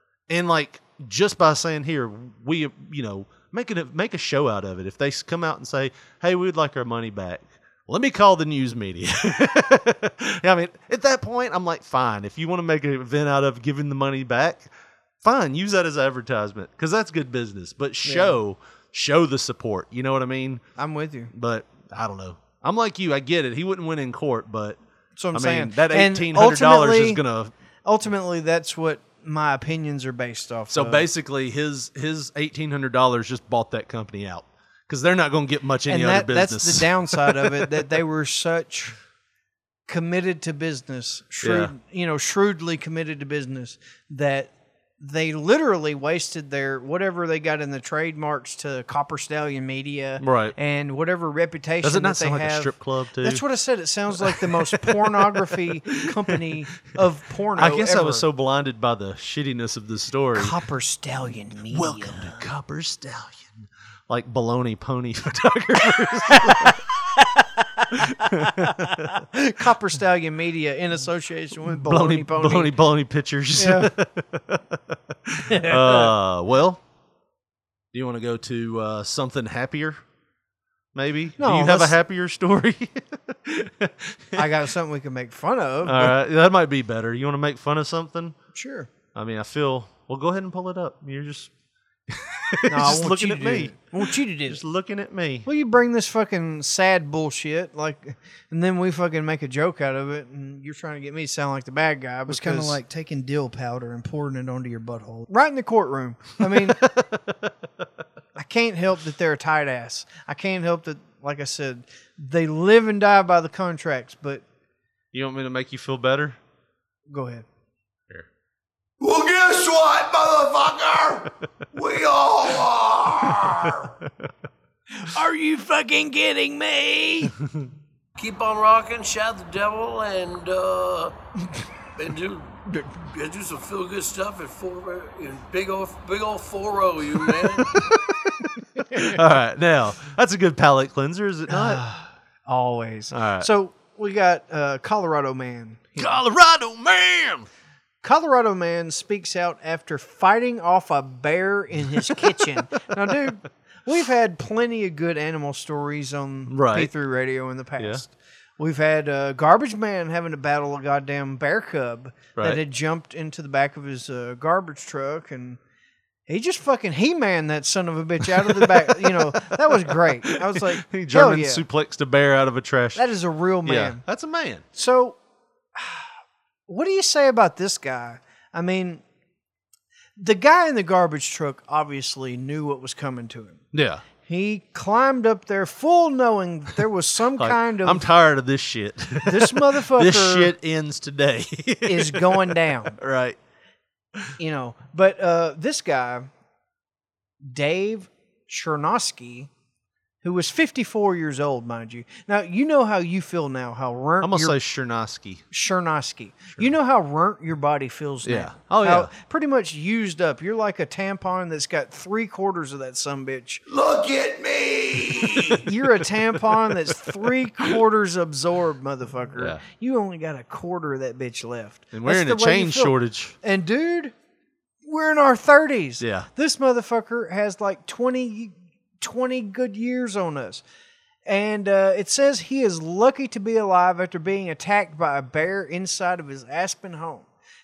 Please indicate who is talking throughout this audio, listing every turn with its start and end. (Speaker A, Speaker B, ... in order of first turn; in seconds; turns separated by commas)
Speaker A: 0.3-14.7, Speaker A: 15.2-20.6, Speaker B: 18.0-18.4, Speaker B: 20.8-21.3, Speaker A: 21.3-24.8, Speaker B: 25.1-27.2, Speaker A: 25.3-27.5, Speaker B: 27.8-31.1, Speaker A: 30.7-37.9, Speaker B: 35.9-39.0, Speaker B: 39.9-58.2, Speaker A: 41.4-41.7, Speaker A: 50.2-50.5, Speaker A: 51.8-53.4, Speaker A: 54.2-56.5, Speaker A: 57.5-60.5, Speaker B: 60.3-62.4, Speaker A: 61.7-66.8, Speaker A: 67.9-69.1, Speaker B: 68.2-72.7, Speaker A: 71.6-76.8, Speaker B: 73.5-73.9, Speaker B: 75.5-76.1, Speaker A: 77.9-80.0, Speaker A: 80.9-84.5, Speaker B: 81.4-82.0, Speaker B: 84.3-86.1, Speaker A: 85.8-88.3, Speaker B: 88.5-88.9, Speaker A: 89.1-91.5, Speaker A: 92.1-95.5, Speaker B: 92.7-94.6, Speaker B: 95.4-106.9, Speaker A: 102.3-102.8, Speaker A: 106.5-107.5, Speaker B: 108.3-114.4, Speaker A: 115.1-116.4, Speaker B: 117.1-117.5, Speaker C: 119.0-123.9, Speaker A: 123.4-123.9, Speaker B: 125.0-127.3, Speaker C: 128.2-131.1, Speaker C: 132.0-137.8, Speaker A: 137.6-141.8, Speaker B: 141.5-146.1, Speaker A: 143.1-143.5, Speaker A: 146.0-147.5, Speaker B: 148.0-165.6, Speaker A: 151.9-152.4, Speaker A: 156.5-156.9, Speaker A: 162.3-162.6, Speaker B: 166.3-171.6, Speaker A: 168.3-173.1, Speaker B: 172.9-174.0, Speaker A: 173.6-174.6, Speaker B: 174.7-175.2, Speaker B: 175.8-176.1, Speaker B: 176.7-179.0, Speaker B: 180.2-183.6, Speaker A: 183.7-184.0, Speaker B: 184.2-188.1, Speaker A: 187.4-193.4, Speaker B: 189.2-190.5, Speaker B: 191.8-193.0, Speaker B: 194.4-196.3, Speaker B: 197.4-199.5, Speaker B: 200.2-204.6, Speaker A: 204.2-205.4, Speaker B: 205.5-213.6, Speaker A: 208.2-209.1, Speaker C: 213.7-215.6, Speaker A: 215.2-215.7, Speaker B: 215.6-224.1, Speaker A: 219.3-219.6, Speaker A: 221.9-223.3, Speaker B: 224.8-230.6, Speaker A: 226.0-226.3, Speaker B: 231.2-237.3